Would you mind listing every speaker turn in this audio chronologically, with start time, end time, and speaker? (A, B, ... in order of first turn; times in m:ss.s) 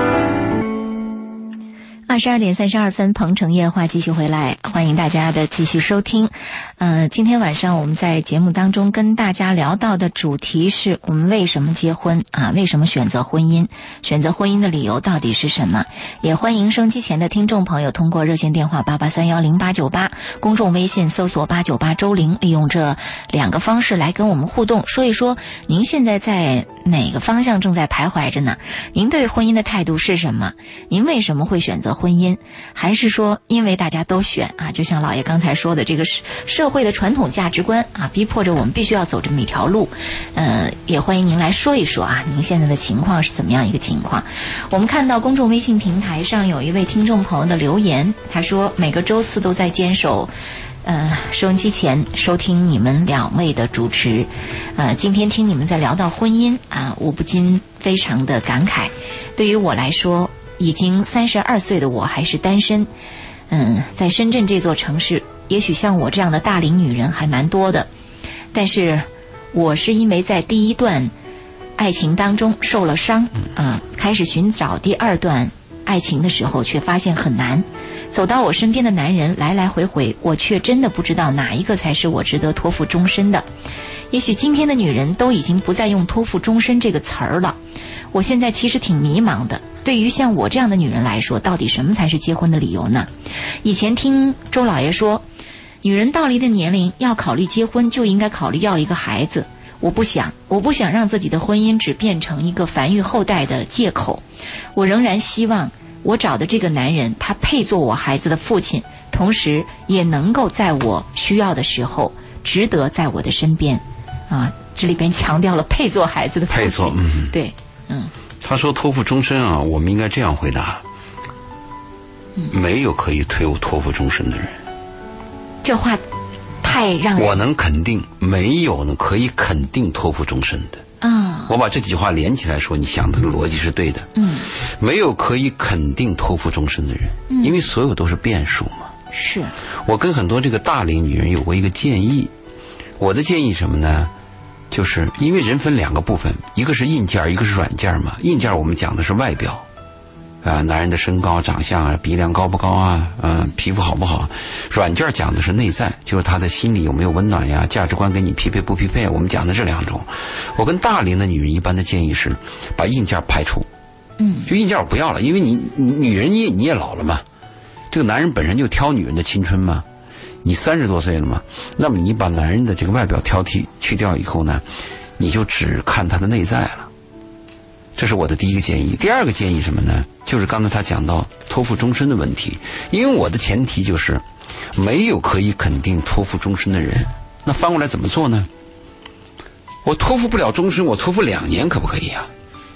0:02.1-0:50.3 A
0:50.8-1:02.9 A
1:03.5-1:07.9 A
1:08.5-1:11.1 A
1:11.8-1:23.4 A
1:24.1-1:27.6 A
1:28.1-1:33.1 A
1:33.6-1:35.2 A
1:35.8-1:44.2 A
1:44.7-1:58.1 A
1:56.5-1:57.3 B
1:58.4-2:00.8 B
2:02.5-2:04.6 B
2:05.6-2:06.0 A
2:06.6-2:07.4 A
2:07.2-2:10.8 B
2:11.0-2:11.5 A
2:11.5-2:18.9 B
2:14.2-2:14.5 A
2:17.3-2:17.6 A
2:19.1-2:19.5 A
2:19.8-2:22.3 B
2:23.0-2:24.1 B
2:24.7-2:29.6 B
2:30.4-2:43.7 B
2:44.2-2:44.5 A
2:44.4-2:47.2 B
2:47.9-2:49.8 B
2:50.4-2:54.6 B
2:55.2-2:56.9 B
2:58.0-3:04.2 B
3:04.7-3:08.5 B
3:09.8-3:12.3 B